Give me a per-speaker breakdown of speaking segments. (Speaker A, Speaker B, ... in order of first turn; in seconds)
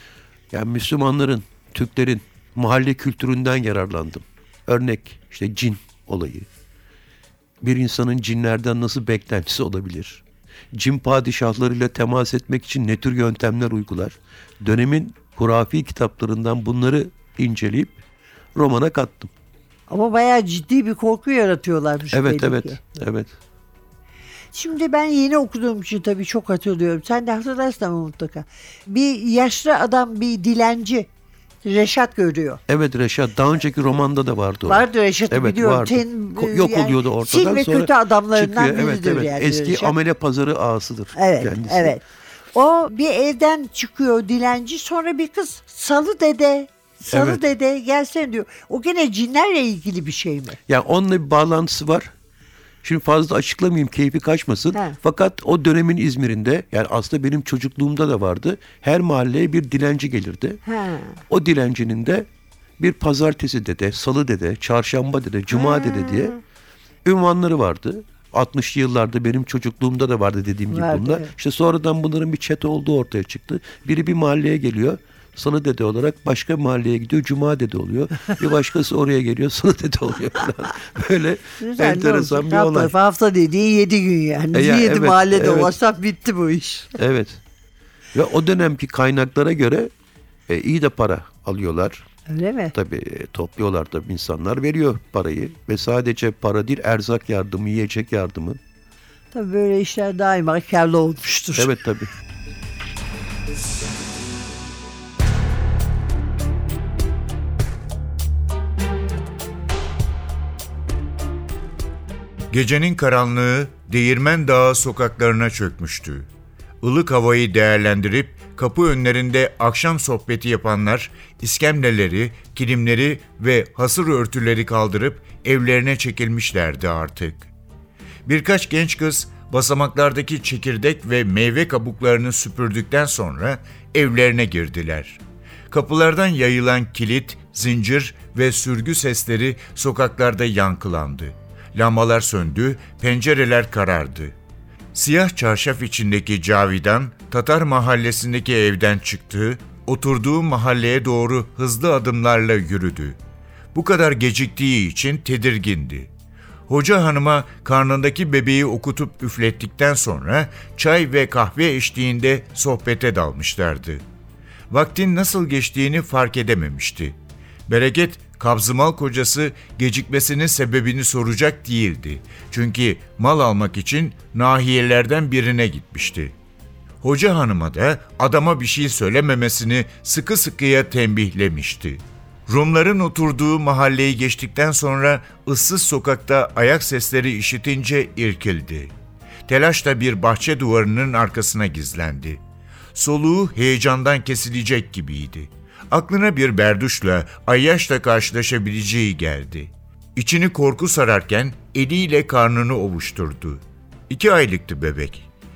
Speaker A: 0.5-6.5, 7.6-18.0, 18.5-19.3, 22.1-23.3, 32.7-42.0, 47.1-47.4, 50.7-52.1, 52.8-60.6, 61.3-62.3, 62.8-66.4, 67.0-82.9, 84.5-85.7, 87.0-87.4, 88.1-89.9, 90.5-92.0, 92.7-98.6, 101.5-102.1
Speaker B: 19.9-22.8, 24.5-31.1, 31.6-32.6, 34.6-39.9, 41.1-42.0, 42.5-50.6, 60.6-61.2, 70.7-71.3, 81.6-86.9, 92.3-92.7, 99.3-101.7
Speaker C: 112.5-116.3, 116.8-127.5, 128.2-144.3, 144.9-153.2, 153.7-156.1, 156.7-164.0, 164.7-176.3, 177.0-188.9, 189.5-192.4, 192.9-205.2